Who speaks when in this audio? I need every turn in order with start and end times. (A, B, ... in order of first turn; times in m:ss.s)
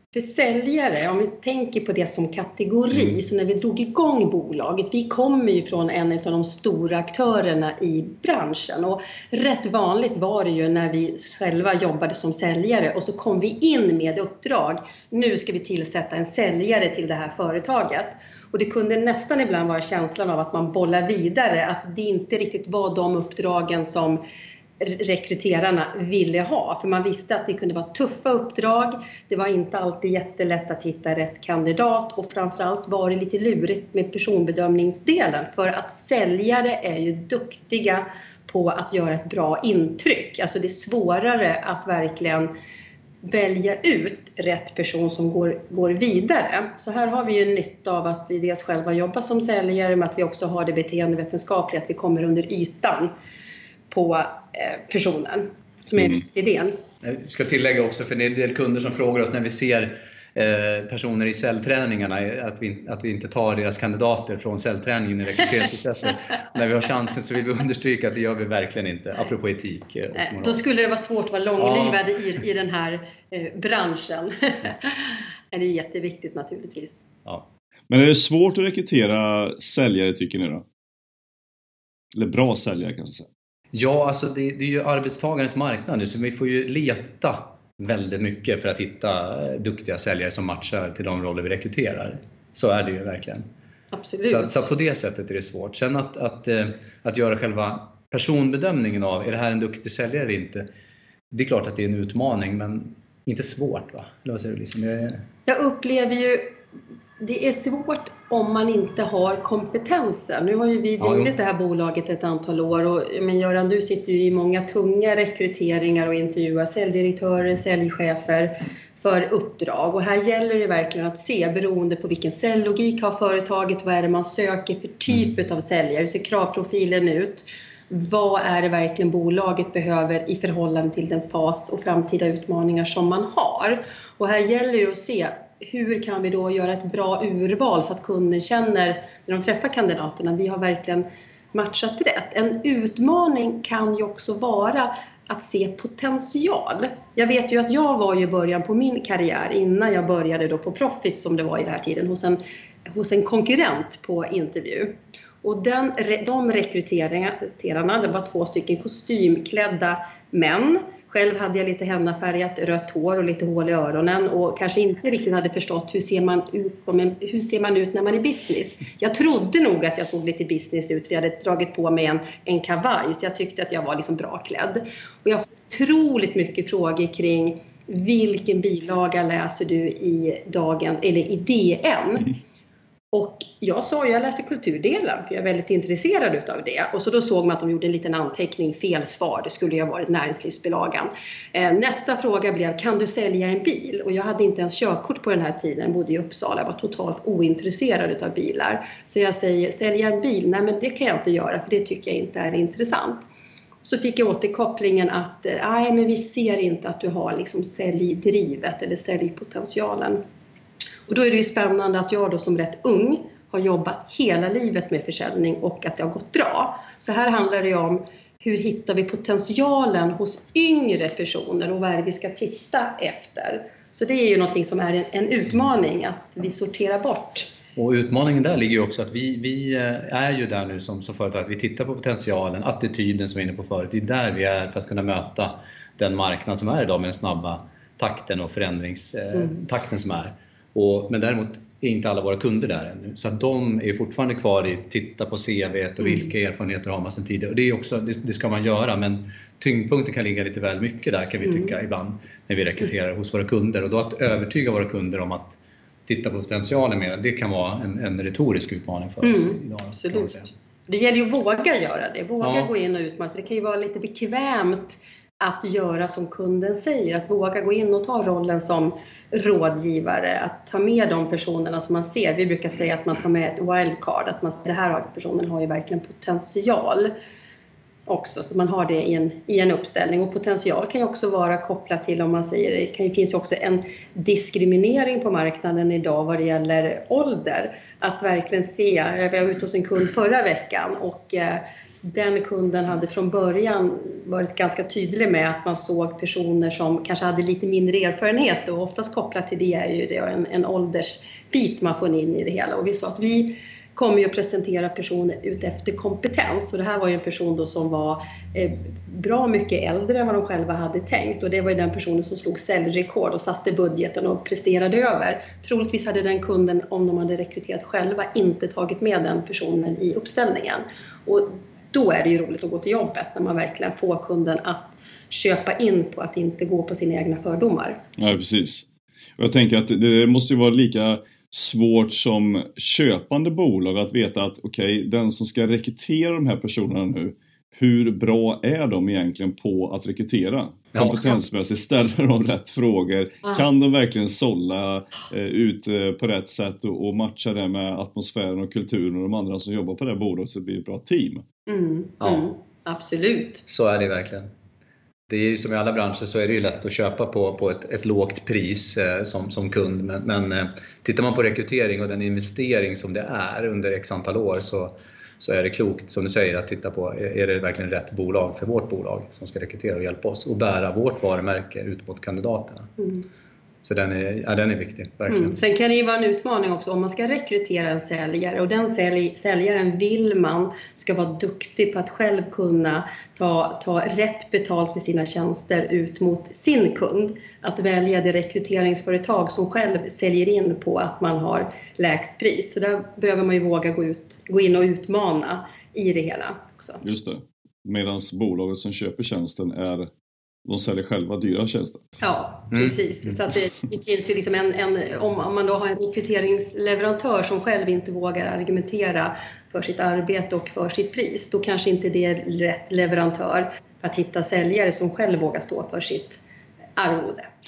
0:00.1-0:24.2 A
0:24.8-0:42.5 A
0:43.2-0:53.1 A
0:53.9-0:56.8 A
0:57.0-1:10.6 B
1:10.2-1:17.0 A
1:11.6-1:12.0 B
1:17.9-1:20.6 C
1:22.1-1:23.3 C
1:23.7-1:33.4 B
1:33.9-1:34.6 A
1:34.2-1:40.7 B
1:41.3-1:45.2 B
1:45.5-1:46.5 A
1:47.2-3:02.3 A
1:51.0-1:51.3 B
3:03.1-3:23.2 A
3:23.8-3:30.2 A
3:31.1-3:47.5 A
3:47.8-4:20.5 B
4:11.4-4:11.7 A
4:19.2-4:37.1 A
4:22.4-4:22.7 B
4:38.1-5:28.0 A
5:28.2-5:28.8 C
5:29.4-5:51.4 C
5:40.9-5:41.2 B
5:51.7-5:53.6 A
5:53.7-5:54.5 B
5:55.3-6:12.9 B
6:13.8-6:15.6 B
6:15.3-6:37.0 A
6:37.0-6:40.1 C
6:40.6-6:42.0 C
6:42.2-6:56.4 A
6:42.7-6:43.0 B
6:57.0-6:57.5 A